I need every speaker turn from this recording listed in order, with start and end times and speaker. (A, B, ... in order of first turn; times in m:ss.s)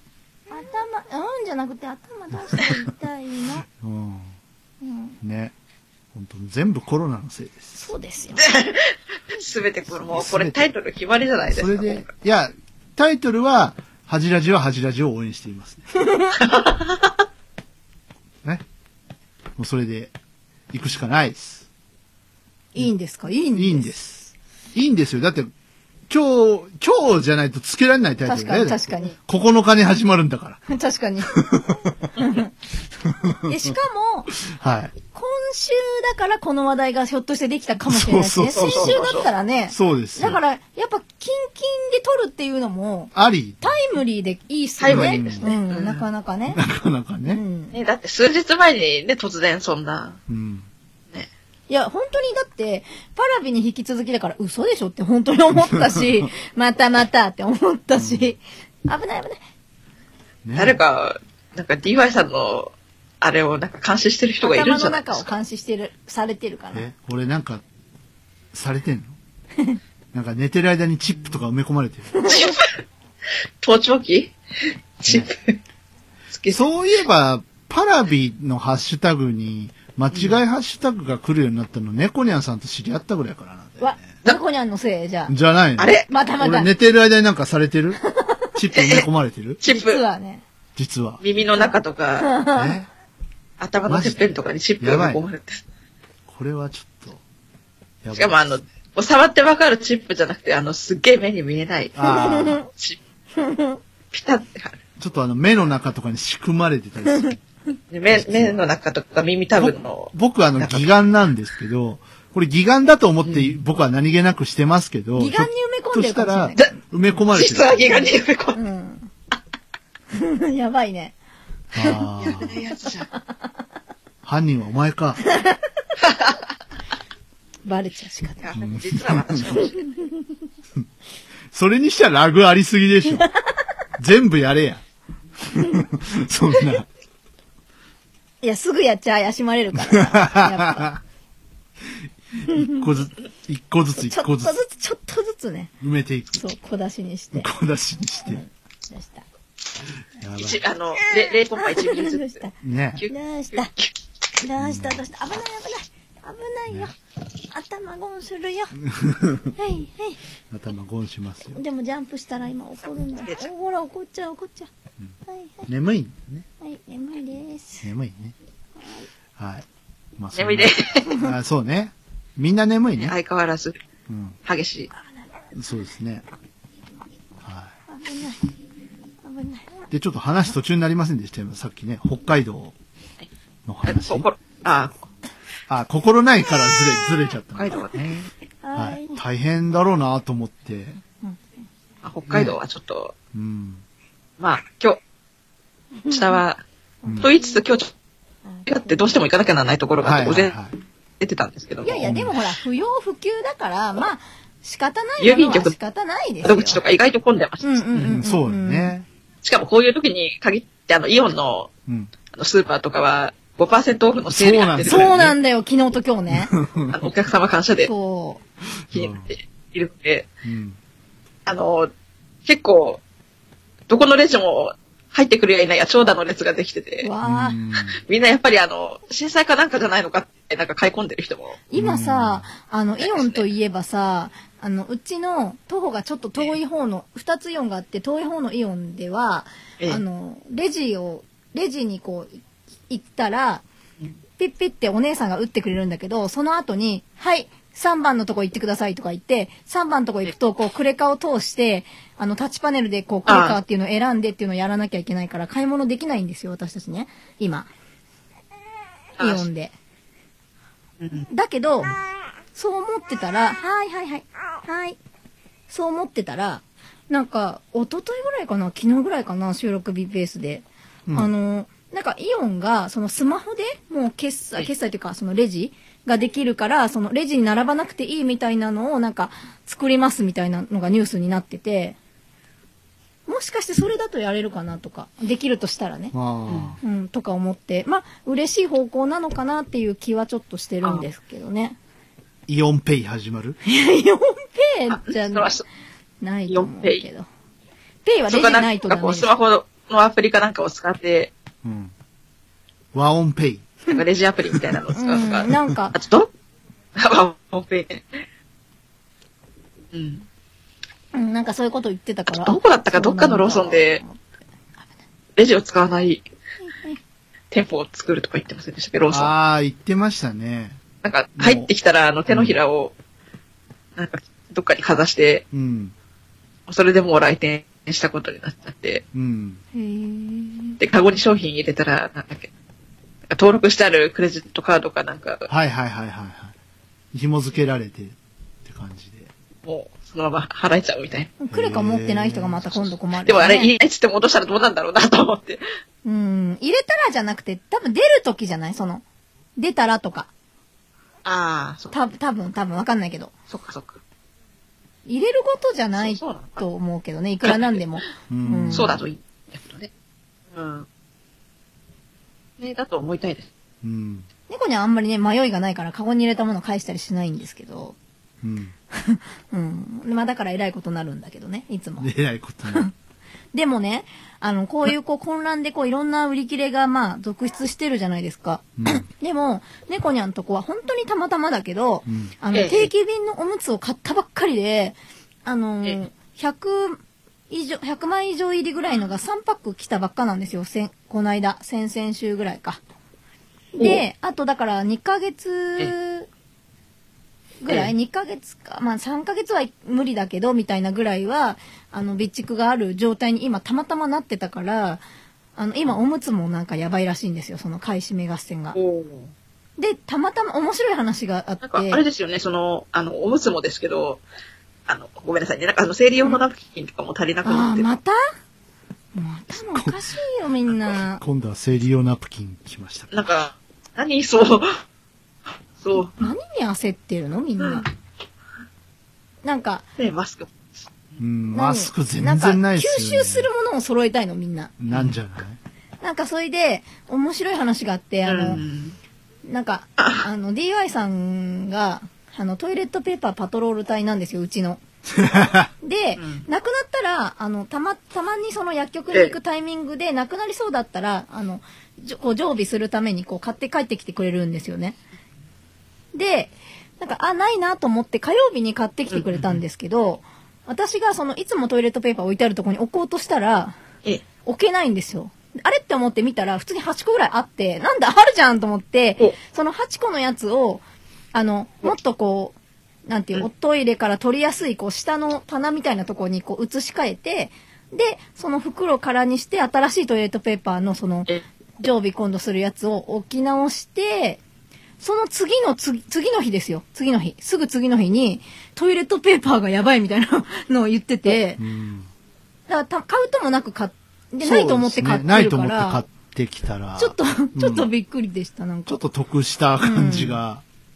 0:00.5-0:03.6 A
0:03.7-0:04.4 B
0:04.8-0:05.2 A
0:05.2-0:05.5 B
0:06.1-0:07.9 B
0:07.8-0:08.5 A
0:08.4-0:12.1 C
0:10.1-0:10.6 B
0:11.5-0:15.9 B
0:16.0-0:16.3 A
0:16.4-0:17.1 C
0:19.6-0:20.1 B
0:20.7-0:21.7 B
0:22.7-0:23.9 A
0:23.5-0:25.5 B
0:26.1-0:30.6 B
0:28.2-0:29.2 A
0:30.7-0:31.4 A
0:31.3-0:31.9 B
0:32.2-0:32.5 A
0:33.1-0:33.7 B
0:33.4-0:34.3 A
0:34.4-0:34.9 B
0:35.1-0:46.6 A
0:37.9-0:39.1 B
0:38.5-0:39.3 C
0:39.7-0:40.4 B
0:43.1-0:43.8 B
0:44.8-0:46.0 C
0:44.9-0:45.5 B
0:46.5-0:47.4 B
0:47.3-0:47.8 A
0:47.7-0:50.2 C
0:50.3-0:50.7 B
0:51.7-0:59.4 A
0:55.5-0:56.3 B
0:58.0-0:58.3 B
1:00.4-1:00.8 B
1:00.6-1:05.3 C
1:04.4-1:06.9 A
1:06.7-1:07.6 B
1:08.5-1:09.2 B
1:10.1-1:12.3 B
1:12.2-1:12.5 A
1:12.3-1:12.6 C
1:13.6-1:14.4 C
1:15.0-1:15.6 C
1:16.3-1:16.7 C
1:16.5-1:24.1 B
1:20.1-1:20.4 C
1:23.8-1:25.4 A
1:25.3-1:28.0 B
1:25.8-1:26.1 C
1:26.1-1:26.7 A
1:28.1-1:28.4 A
1:28.6-1:29.6 B
1:28.8-1:29.1 C
1:29.6-1:30.0 C
1:29.6-1:30.4 A
1:30.8-1:31.2 B
1:31.2-1:32.4 C
1:31.6-1:32.7 A
1:32.5-1:32.9 B
1:33.6-1:35.6 C
1:33.9-1:35.2 B
1:36.3-1:37.2 B
1:38.0-1:38.6 B
1:38.1-1:42.2 C
1:42.0-1:42.6 B
1:42.1-1:42.7 A
1:42.7-1:43.0 C
1:43.4-1:43.8 A
1:44.1-1:44.8 C
1:45.0-1:47.4 B
1:47.9-1:50.9 C
1:48.1-1:48.6 B
1:49.6-1:58.1 B
1:53.2-1:53.6 C
1:55.2-1:56.7 A
1:57.3-1:58.6 C
1:58.6-1:59.1 A
2:00.1-2:01.2 A
2:01.7-2:02.5 B
2:01.8-2:02.4 A
2:02.2-2:03.1 C
2:04.2-2:05.2 B
2:05.3-2:05.6 A
2:06.0-2:06.3 C
2:07.7-2:08.5 A
2:08.4-2:09.9 C
2:08.6-2:09.5 B
2:09.6-2:10.1 A
2:11.5-2:13.3 B
2:14.0-2:14.8 B
2:15.5-2:16.9 B
2:18.4-2:21.0 A
2:19.9-2:21.0 B
2:22.4-2:24.6 B
2:22.5-2:22.8 A
2:24.0-2:25.7 A
2:25.8-2:26.4 B
2:26.4-2:27.5 A
2:27.3-2:28.4 B
2:28.3-2:29.2 A
2:30.2-2:30.6 B
2:30.4-2:32.4 C
2:31.0-2:32.5 A
2:32.6-2:33.0 B
2:33.0-2:33.9 C
2:33.1-2:33.7 A
2:34.4-2:37.0 A
2:34.6-2:35.0 B
2:37.5-2:38.8 A
2:38.8-2:39.5 B
2:39.6-2:40.2 A
2:40.5-2:41.6 B
2:41.5-2:44.7 A
2:43.2-2:43.5 C
2:45.3-2:45.7 A
2:45.7-2:46.5 B
2:46.6-2:47.9 A
2:47.8-2:48.4 B
2:48.8-2:49.1 A
2:49.4-2:49.6 B
2:50.2-2:53.2 B
2:50.4-2:51.2 C
2:53.0-2:53.8 C
2:54.1-2:54.4 B
2:54.5-2:54.9 C
2:55.6-2:56.2 B
2:57.4-2:57.7 B
2:57.9-2:58.4 A
2:59.2-2:59.7 A
2:59.9-3:02.7 B
3:03.7-3:04.3 B
3:03.9-3:05.0 C
3:05.7-3:11.0 B
3:07.6-3:08.3 C
3:08.6-3:09.2 A
3:12.0-3:13.1 C
3:12.3-3:12.6 B
3:13.3-3:13.8 B
3:14.4-3:15.0 C
3:16.0-3:16.4 A
3:16.1-3:16.6 C
3:17.0-3:17.6 A
3:17.0-3:17.3 B
3:17.2-3:17.9 C
3:18.5-3:19.0 A
3:18.7-3:20.6 C
3:20.0-3:20.8 B
3:21.2-3:22.0 C
3:21.8-3:26.8 A
3:22.0-3:22.4 B
3:25.2-3:25.7 C
3:26.4-3:28.2 C
3:27.6-3:28.9 A
3:28.0-3:29.1 B
3:29.4-3:31.7 C
3:31.9-3:32.1 B
3:32.3-3:35.2 C
3:34.3-3:35.4 B
3:34.8-3:36.5 A
3:36.3-3:37.0 B
3:36.9-3:37.9 C
3:37.8-3:38.4 A
3:38.9-3:39.3 B
3:38.9-3:40.3 C
3:40.4-3:40.8 B
3:41.5-3:41.9 C
3:42.4-3:43.0 C
3:43.9-3:47.1 C
3:47.0-3:47.6 A
3:47.2-3:48.0 B
3:48.1-3:51.6 C
3:51.7-4:03.6 A
3:51.8-3:52.5 B
3:53.0-3:53.5 C
4:04.4-4:17.7 A
4:13.3-4:13.6 C
4:19.2-4:19.5 C
4:19.2-4:19.8 A
4:21.0-4:21.3 C
4:21.3-4:22.0 A
4:22.6-4:25.0 A
4:25.7-4:42.0 A
4:43.3-4:46.1 A
4:46.1-4:46.8 B
4:46.5-4:46.8 C
4:46.8-4:51.8 A
4:52.5-4:53.6 B
4:53.6-4:55.6 A
4:54.9-4:55.6 C
4:56.2-4:57.3 A
4:56.5-4:57.0 C
4:58.0-4:59.3 A
4:58.3-5:01.3 C
5:01.6-5:01.9 B
5:02.9-5:03.7 B
5:03.9-5:06.3 C
5:04.9-5:06.0 A
5:07.0-5:08.2 C
5:09.9-5:10.3 C
5:11.1-5:14.9 A
5:12.3-5:14.0 C
5:15.4-5:16.2 C
5:16.7-5:17.0 A
5:17.5-5:19.3 C
5:19.1-5:20.8 B
5:21.0-5:22.9 C
5:21.4-5:21.7 B
5:22.3-5:22.6 B
5:24.0-5:25.4 C
5:25.5-5:25.9 B
5:26.7-5:29.0 C
5:29.1-5:29.6 B
5:29.7-5:30.8 A
5:30.8-5:32.5 C
5:33.3-5:35.5 C
5:35.5-5:36.6 B
5:37.1-5:39.3 B
5:39.6-5:41.3 C
5:41.4-5:43.7 A
5:41.5-5:42.9 B
5:43.2-5:45.6 C
5:46.0-5:49.0 A
5:49.6-5:50.3 A
5:51.2-5:51.9 C
5:51.9-5:53.3 A
5:53.5-5:54.0 C
5:55.1-5:58.9 A
5:56.0-5:56.6 C
5:57.4-5:57.8 C
5:58.3-5:59.0 B
5:58.7-5:59.9 C
6:00.5-6:00.9 C
6:02.6-6:03.5 C
6:03.8-6:04.3 B
6:04.5-6:08.0 A
6:08.4-6:08.7 B
6:08.9-6:12.1 A
6:12.0-6:12.9 B
6:13.5-6:32.8 A
6:18.8-6:19.0 B
6:22.1-6:22.3 B
6:22.5-6:22.9 C
6:33.8-6:36.3 A
6:37.6-6:45.0 A
6:45.6-6:48.8 A
6:48.7-6:49.3 C
6:49.8-6:52.0 A
6:51.6-6:54.2 C
6:54.9-6:57.9 C
6:57.4-6:58.2 A
6:59.2-7:01.2 A
6:59.5-7:00.0 B
7:00.9-7:03.1 B
7:03.1-7:04.8 C
7:05.8-7:06.1 C
7:06.2-7:07.9 A
7:07.6-7:07.9 C
7:09.4-7:09.8 A
7:10.0-7:10.5 C
7:11.2-7:13.5 B
7:11.5-7:14.7 A
7:14.8-7:15.6 B
7:14.9-7:15.2 C
7:16.0-7:18.6 A
7:18.3-7:19.0 C
7:19.5-7:24.8 A
7:20.0-7:20.2 C
7:25.2-7:25.7 B
7:25.8-7:35.0 A
7:26.2-7:26.4 C
7:36.1-7:43.8 A
7:39.1-7:39.6 C
7:44.4-7:52.6 A
7:53.1-8:04.4 A
8:05.0-8:11.6 A
8:11.6-8:12.1 B
8:12.7-8:16.0 A
8:14.4-8:17.9 B
8:17.0-8:19.0 A
8:18.9-8:20.6 B
8:19.8-8:20.4 A